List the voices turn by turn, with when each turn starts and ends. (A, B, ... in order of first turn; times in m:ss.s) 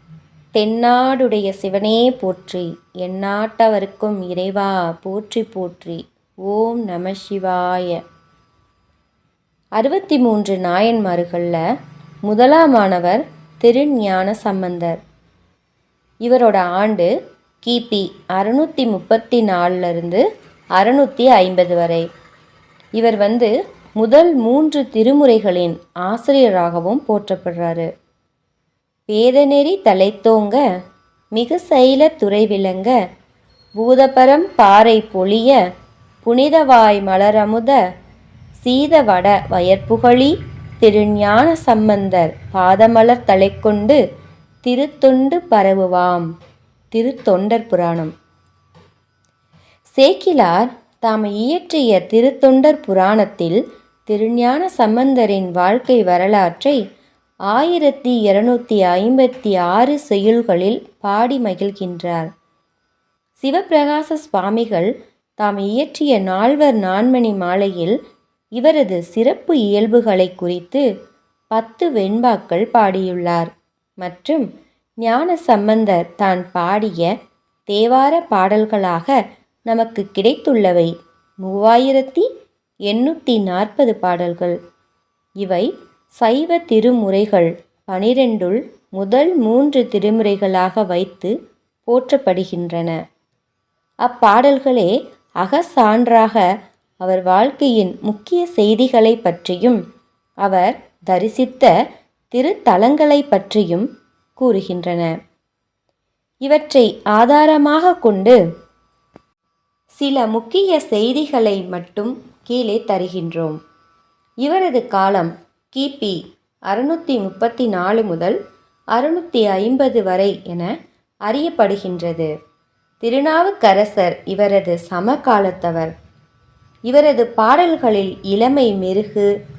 0:00.6-0:08.0 A
0:09.8-0:11.6 A
0:12.3-0:15.0 A
0:16.2-0:17.1 A
0:17.6-0:20.2 A
0:20.8-0:22.1 A
0:23.0-0:27.9 A
0:29.1-0:30.6 A
0:31.3-0:32.9 A
0:33.8-0:35.6 A
0:36.2-0:37.8 A
0:38.6-0:44.0 A
0:44.6-0:46.3 A
0:46.9-0:48.1 A
0:49.9-0:56.8 A
0:57.5-1:02.3 A
1:03.4-1:08.0 A
1:08.6-1:10.9 A
1:11.5-1:14.4 A
1:15.0-1:17.1 A
1:17.7-1:19.2 A
1:19.7-1:20.9 A
1:21.4-1:22.3 A
1:22.9-1:24.6 A
1:25.4-1:31.3 A
1:31.9-1:33.0 A
1:34.0-1:36.4 A
1:37.0-1:39.8 A
1:40.4-1:41.7 A
1:42.3-1:45.1 A
1:46.4-1:48.4 A
1:49.9-1:53.6 A
1:54.4-1:58.4 A
1:59.0-2:00.7 A
2:01.3-2:02.3 A
2:03.0-2:05.9 A
2:06.9-2:09.3 A